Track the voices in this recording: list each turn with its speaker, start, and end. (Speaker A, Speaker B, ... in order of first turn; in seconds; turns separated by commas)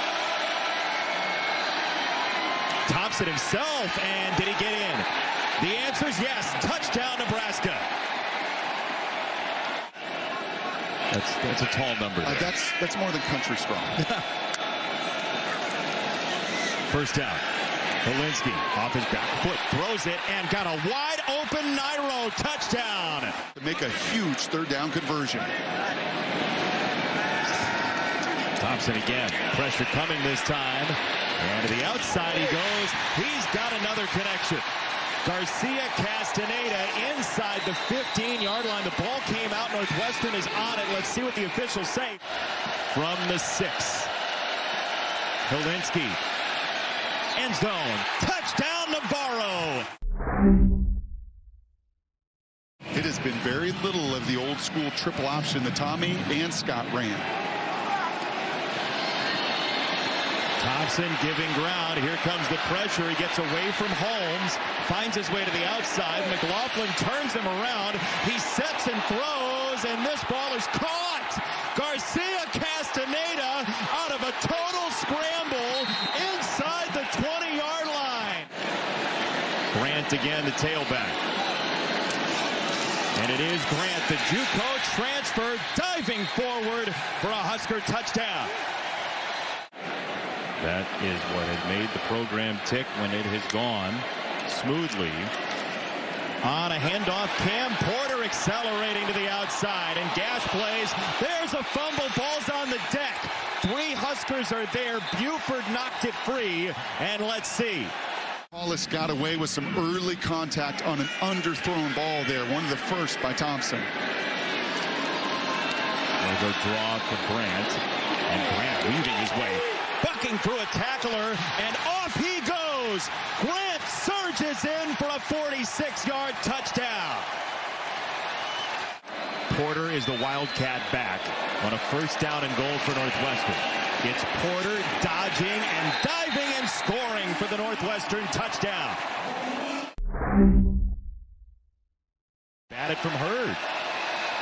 Speaker A: 2.9-7.9, Speaker A: 11.1-12.5, Speaker B: 12.2-14.0, Speaker A: 16.9-17.4, Speaker A: 18.0-23.4, Speaker B: 23.6-25.5, Speaker A: 28.6-34.7, Speaker A: 35.2-42.2, Speaker A: 42.9-44.1, Speaker A: 45.5-46.2, Speaker A: 47.4-49.9, Speaker B: 52.9-57.3, Speaker A: 60.6-78.5, Speaker A: 79.7-81.2, Speaker A: 83.2-88.5, Speaker A: 90.6-95.3, Speaker A: 96.4-107.9, Speaker B: 108.5-113.9, Speaker A: 116.2-127.3, Speaker A: 129.5-139.0, Speaker A: 142.7-143.6